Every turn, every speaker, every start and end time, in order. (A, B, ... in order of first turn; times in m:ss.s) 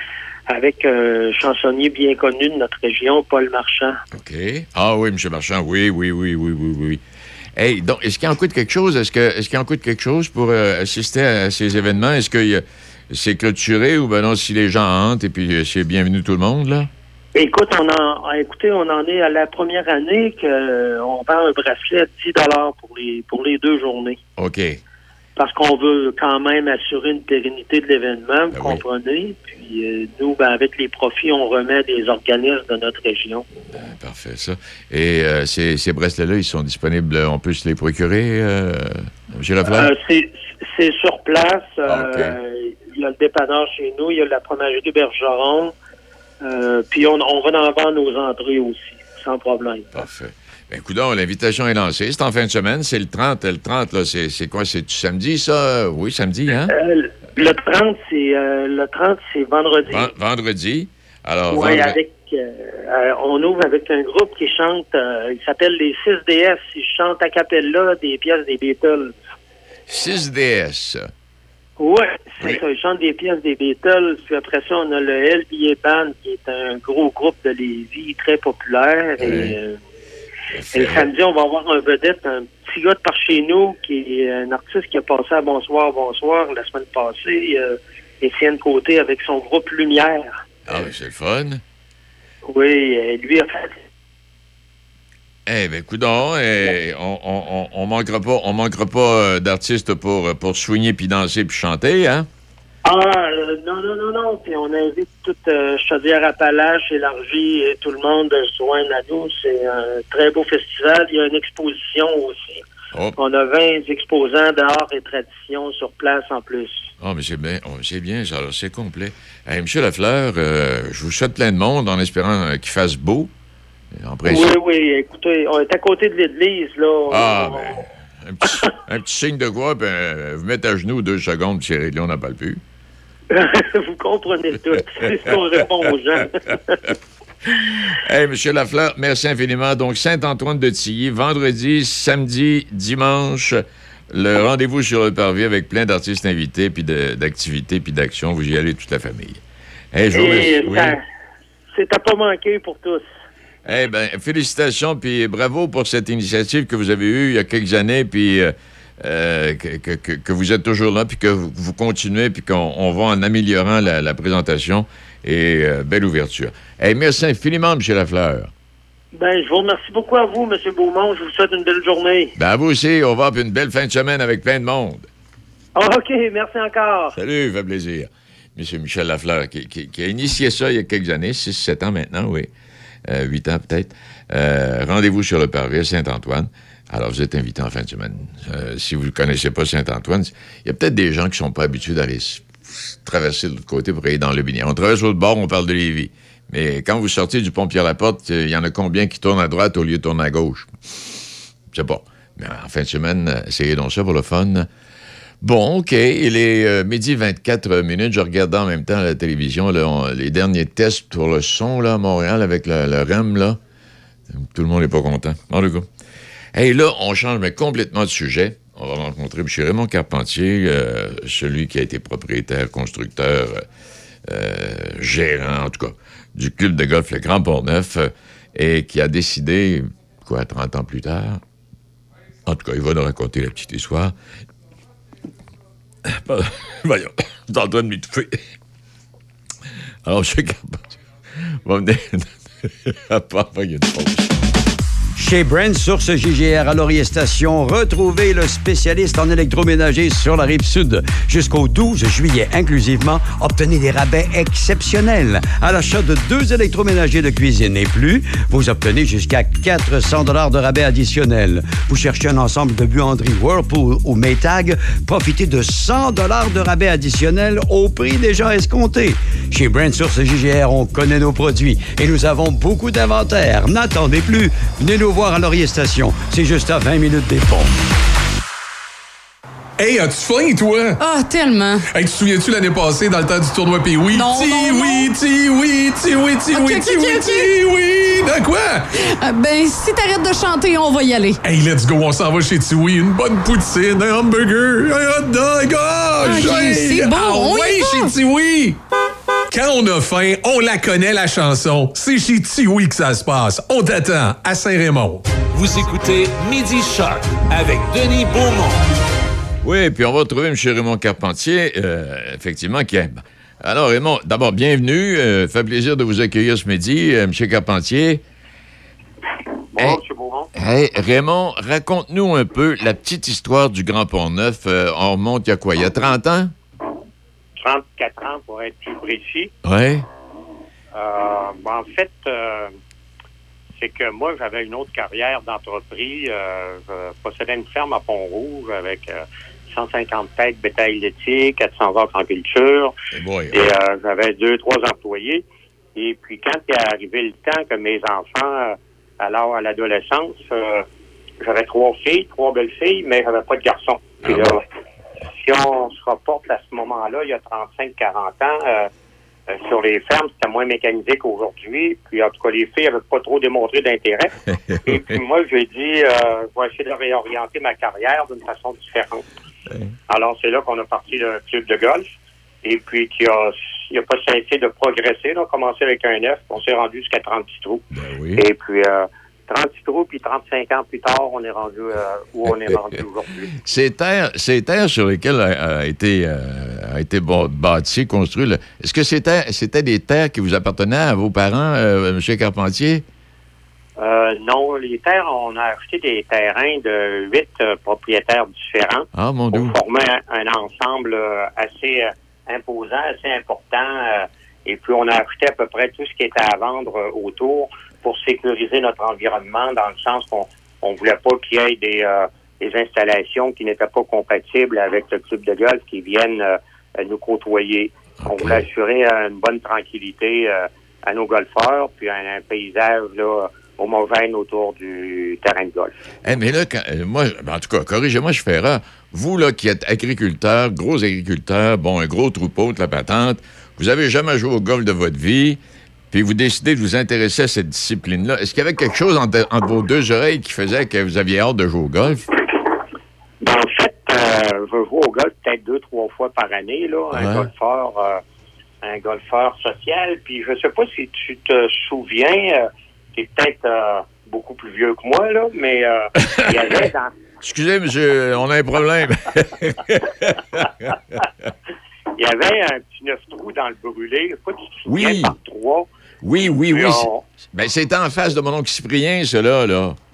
0:00.5-0:04.0 A
0:04.1-0:07.0 B
0:07.6-0:16.9 B
0:17.3-0:24.2 A
0:24.4-0:24.8 B
0:25.4-0:33.4 A
0:28.5-0:28.8 B
0:33.7-0:39.9 B
0:39.7-0:45.7 A
0:41.9-0:42.4 B
0:46.4-0:49.9 A
0:49.9-0:56.7 B
0:56.7-1:00.1 A
0:59.8-1:02.0 B
1:01.5-1:09.1 A
1:09.9-1:11.1 B
1:11.8-1:19.8 A
1:19.2-1:19.5 B
1:20.5-1:21.1 B
1:20.7-1:30.4 A
1:30.7-1:31.6 B
1:32.4-1:33.8 A
1:35.5-1:42.3 B
1:42.8-1:52.6 A
1:53.2-1:56.9 A
1:57.0-2:03.3 B
2:03.9-2:04.5 B
2:04.2-2:07.8 A
2:07.1-2:12.6 B
2:13.3-2:16.8 A
2:17.6-2:29.4 B
2:29.9-2:31.0 B
2:30.1-2:31.0 A
2:31.7-2:33.0 A
2:33.6-2:48.5 B
2:49.1-2:52.3 A
2:52.4-2:55.1 B
2:55.7-2:57.2 A
2:57.1-3:02.5 B
3:03.1-3:20.7 B
3:21.7-3:24.7 B
3:25.4-3:33.6 B
3:34.3-3:35.9 B
3:36.5-3:43.6 B
3:44.2-3:51.4 B
3:52.4-3:54.1 B
3:56.0-3:58.4 B
4:00.0-4:04.4 B
4:05.2-4:37.7 C
4:39.8-4:41.0 D
4:41.0-4:41.8 E
4:41.9-4:49.1 D
4:44.1-4:45.1 E
4:46.5-4:47.5 E
4:49.1-4:51.4 E
4:51.4-4:58.8 D
4:56.2-4:58.1 E
4:59.5-5:05.2 D
5:05.5-5:08.9 F
5:09.6-5:18.2 B
5:19.7-5:20.5 G
5:20.5-5:26.5 B
5:27.6-5:29.5 G
5:29.6-5:30.0 B
5:30.9-5:32.7 G
5:33.8-5:42.9 G
5:43.1-5:43.6 B
5:43.5-5:45.4 G
5:45.9-5:50.8 G
5:51.4-5:54.6 G
5:55.4-5:58.9 G
5:59.5-6:04.3 G
6:04.8-6:09.2 G
6:10.1-6:12.1 G
6:12.6-6:17.8 G
6:17.9-6:18.4 B
6:18.4-6:23.5 G
6:23.6-6:33.0 B
6:34.0-7:05.9 G
6:39.1-6:39.8 B
6:58.2-6:58.6 B
7:06.2-7:15.6 B
7:16.1-7:22.2 B
7:23.4-7:28.2 G
7:27.2-7:27.4 B
7:28.8-7:37.1 G
7:36.2-7:36.8 B
7:37.4-7:41.0 B
7:42.1-7:45.9 G
7:44.9-7:45.3 B
7:46.2-7:50.0 B
7:46.4-7:47.2 G